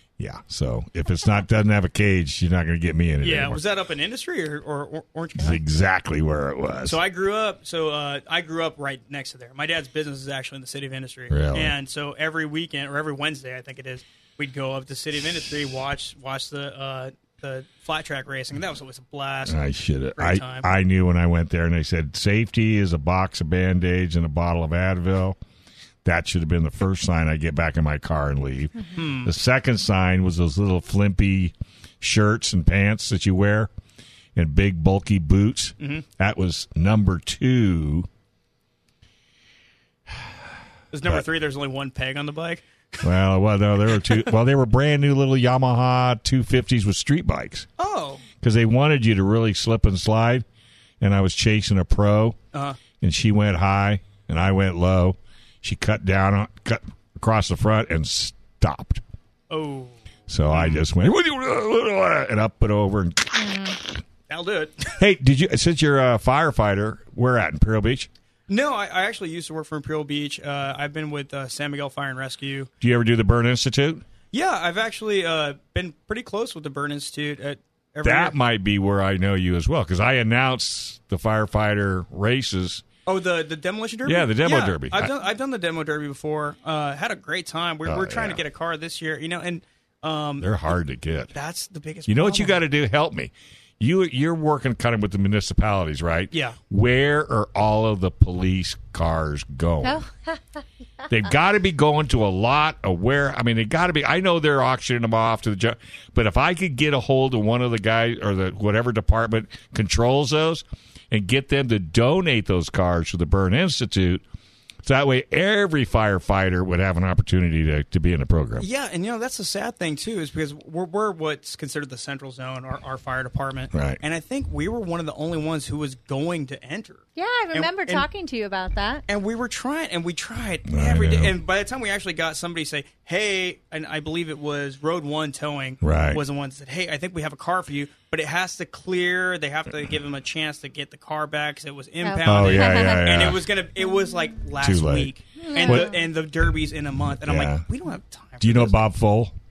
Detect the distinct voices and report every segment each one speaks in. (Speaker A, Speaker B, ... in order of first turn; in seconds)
Speaker A: 0.2-3.6, 5.3-7.0, 11.3-11.7, 19.4-25.4, 26.0-33.7, 34.4-38.1, 43.0-47.6, 48.4-50.4, 51.0-52.4, 53.0-59.0, 60.3-63.7, 65.0-68.1, 72.8-74.0, 78.0-82.8, 84.0-85.1, 87.8-88.4, 90.4-91.3, 92.1-100.0, 101.1-114.2, 114.8-118.7, 123.7-124.0, 130.7-131.3, 135.8-136.2, 142.2-143.5, 144.6-145.9, 147.2-147.6, 148.4-149.3
Speaker B: 3.2-5.6, 6.8-19.6, 20.1-20.7, 28.9-29.3, 35.8-36.0, 40.9-43.1, 47.8-48.2, 52.5-52.8, 59.5-60.8, 64.3-65.0, 68.5-72.7, 74.3-78.3, 83.0-90.7, 91.3-92.6, 96.3-96.6, 118.6-128.1, 129.1-148.8
Speaker C: 63.4-63.8, 99.8-101.1, 127.2-129.0, 142.0-143.1, 145.4-146.1